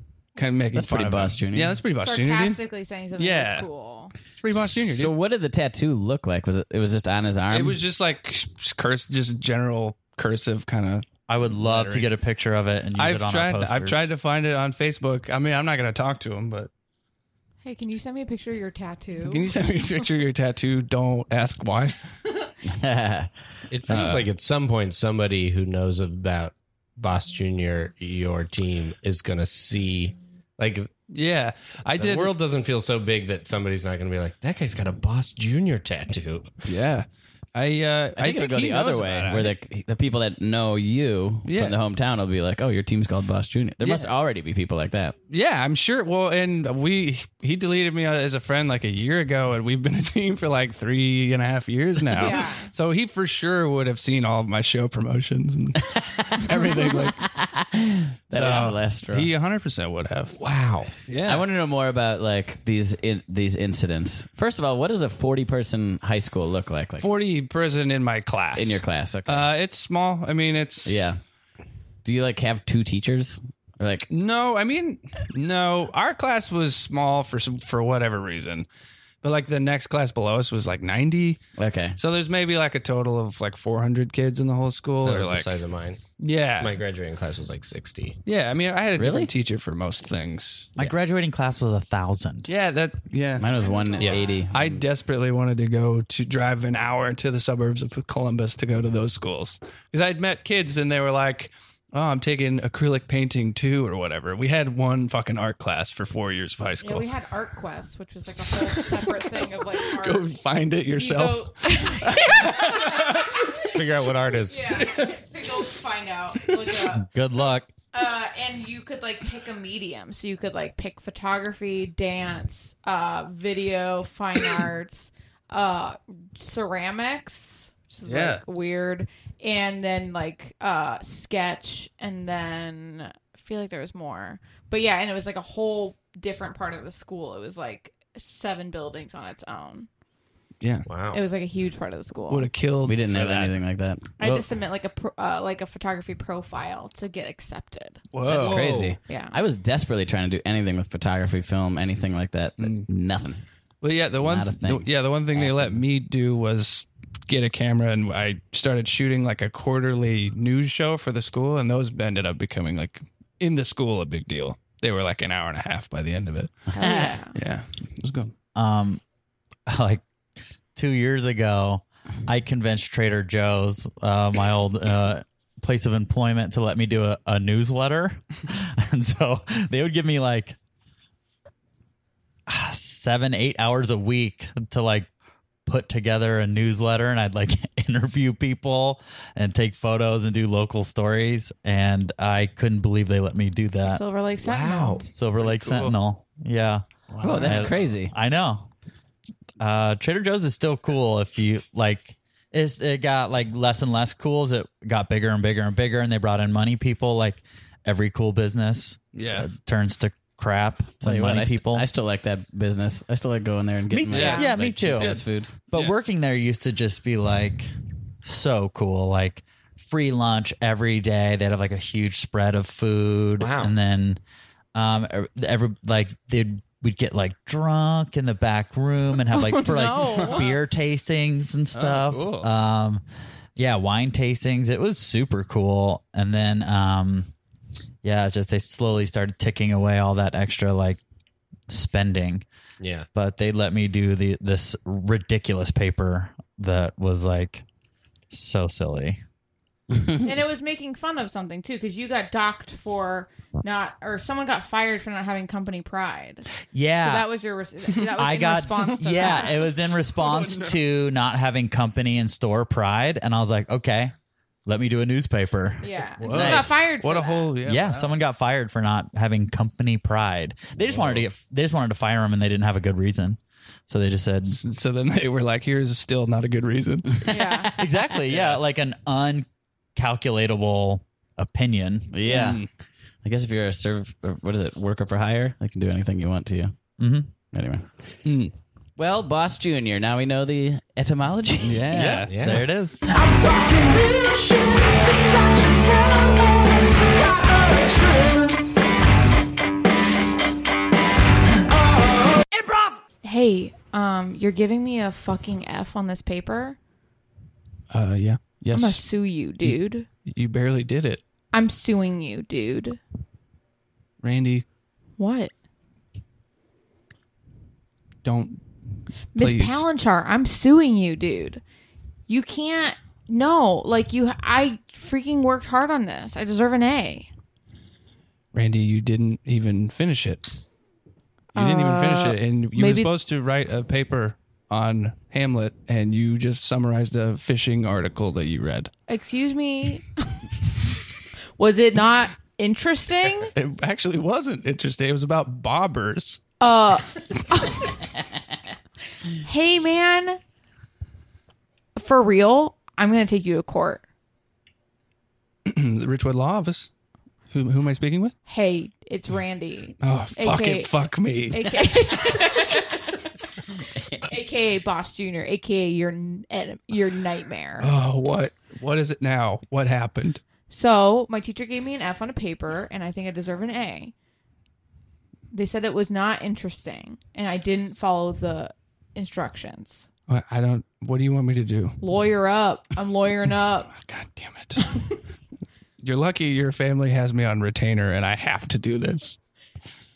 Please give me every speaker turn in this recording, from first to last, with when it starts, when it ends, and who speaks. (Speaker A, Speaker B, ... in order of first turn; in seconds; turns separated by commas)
Speaker A: 0.3-2.6, Speaker B: 0.7-1.8, Speaker C: 1.9-4.1, Speaker A: 3.2-3.7, Speaker A: 4.4-5.1, Speaker B: 4.5-7.8, Speaker A: 7.5-12.1, Speaker D: 11.3-14.1, Speaker A: 13.0-16.7, Speaker C: 17.6-19.6, Speaker A: 19.2-22.0, Speaker B: 22.6-23.3, Speaker E: 23.7-30.9, Speaker A: 23.9-24.3, Speaker A: 31.1-32.3, Speaker E: 32.0-36.5, Speaker A: 36.6-39.6, Speaker B: 38.1-45.1, Speaker A: 41.5-41.8, Speaker A: 43.8-44.1, Speaker A: 45.3-57.3, Speaker C: 52.2-52.7, Speaker B: 55.9-59.3, Speaker A: 58.3-60.3, Speaker E: 60.4-60.9, Speaker A: 61.1-61.5, Speaker B: 61.2-67.1, Speaker A: 67.0-71.1, Speaker B: 68.5-69.5, Speaker B: 70.8-71.2, Speaker B: 72.0-74.1, Speaker A: 74.1-78.7, Speaker A: 79.2-81.4, Speaker B: 81.6-82.0, Speaker A: 82.0-85.5, Speaker E: 85.0-86.0, Speaker A: 86.2-86.8, Speaker E: 86.6-88.2, Speaker A: 88.2-90.7, Speaker B: 89.0-89.3, Speaker D: 90.8-92.5, Speaker A: 92.5-93.6, Speaker B: 93.4-94.8, Speaker C: 93.6-94.4, Speaker A: 94.5-107.1, Speaker C: 106.8-110.4, Speaker A: 108.6-109.2, Speaker A: 109.9-113.4, Speaker C: 110.9-113.8, Speaker E: 113.7-115.0, Speaker C: 114.4-117.1, Speaker D: 116.9-117.7, Speaker C: 117.9-139.9, Speaker A: 128.1-128.4, Speaker A: 140.6-140.9, Speaker E: 140.8-141.2, Speaker C: 141.1-142.5, Speaker A: 142.3-143.6, Speaker B: 142.8-144.2, Speaker C: 144.2-148.0, Speaker A: 148.1-148.8, Speaker B: 148.2-153.4, Speaker E: 148.3-148.9, Speaker C: 149.0-149.4, Speaker A: 152.6-152.9, Speaker A: 153.8-166.6, Speaker B: 154.2-155.8, Speaker C: 166.7-167.3, Speaker B: 166.8-167.1, Speaker A: 167.3-168.3, Speaker D: 168.5-169.0, Speaker D: 169.7-170.0, Speaker D: 170.7-180.6, Speaker D: 182.5-185.1, Speaker D: 185.7-194.0, Speaker C: 193.8-195.1, Speaker E: 194.4-195.1, Speaker D: 195.0-196.8, Speaker A: 195.4-195.9, Speaker A: 197.1-197.9, Speaker B: 197.2-198.1, Speaker D: 197.3-198.7, Speaker D: 199.6-211.8, Speaker A: 209.1-209.5, Speaker B: 211.0-215.6, Speaker D: 213.9-217.7, Speaker A: 214.1-215.9, Speaker C: 214.1-214.4, Speaker D: 218.2-224.2, Speaker E: 223.4-223.8, Speaker D: 224.7-233.0, Speaker C: 229.3-230.6, Speaker A: 231.7-232.5, Speaker D: 233.6-237.3, Speaker D: 238.0-241.0, Speaker D: 241.7-242.4, Speaker E: 242.8-243.1, Speaker D: 243.1-247.6, Speaker D: 248.3-249.2, Speaker B: 249.9-250.2, Speaker C: 250.2-259.7, Speaker D: 256.7-257.3, Speaker D: 258.1-264.1, Speaker A: 259.1-259.5, Speaker A: 260.1-260.8, Speaker D: 264.6-266.8, Speaker C: 265.8-267.5, Speaker A: 266.2-268.1, Speaker D: 267.6-274.6, Speaker E: 270.8-271.3, Speaker A: 274.5-277.4, Speaker C: 277.2-277.7, Speaker D: 277.8-282.1, Speaker B: 282.1-282.6, Speaker A: 282.2-282.7, Speaker B: 283.2-286.7, Speaker D: 287.0-287.3, Speaker B: 287.4-288.1, Speaker A: 288.2-288.5, Speaker B: 289.0-292.3, Speaker A: 291.6-292.6, Speaker E: 291.9-292.7, Speaker D: 292.4-293.1, Speaker F: 293.1-298.9, Speaker F: 301.7-303.0, Speaker C: 303.2-306.8, Speaker A: 307.9-309.1, Speaker C: 308.7-310.1, Speaker A: 309.6-311.2, Speaker C: 311.5-313.0, Speaker A: 314.2-314.6, Speaker C: 315.2-315.5, Speaker A: 318.2-318.6, Speaker C: 319.3-321.6, Speaker A: 319.4-319.9, Speaker C: 322.3-327.3, Speaker A: 328.5-330.5, Speaker A: 331.5-338.9, Speaker C: 331.5-333.1, Speaker C: 339.1-340.5, Speaker C: 341.6-343.5, Speaker A: 343.5-346.4, Speaker C: 346.6-347.9, Speaker C: 349.4-350.4, Speaker C: 351.9-354.0, Speaker A: 355.6-356.9, Speaker A: 357.5-358.3, Speaker C: 358.5-363.1, Speaker A: 360.0-362.2, Speaker C: 364.2-367.9, Speaker A: 367.8-370.4, Speaker C: 370.7-374.1, Speaker C: 375.5-380.1, Speaker A: 380.3-382.0, Speaker C: 382.0-383.9, Speaker A: 383.9-385.0, Speaker A: 386.0-389.4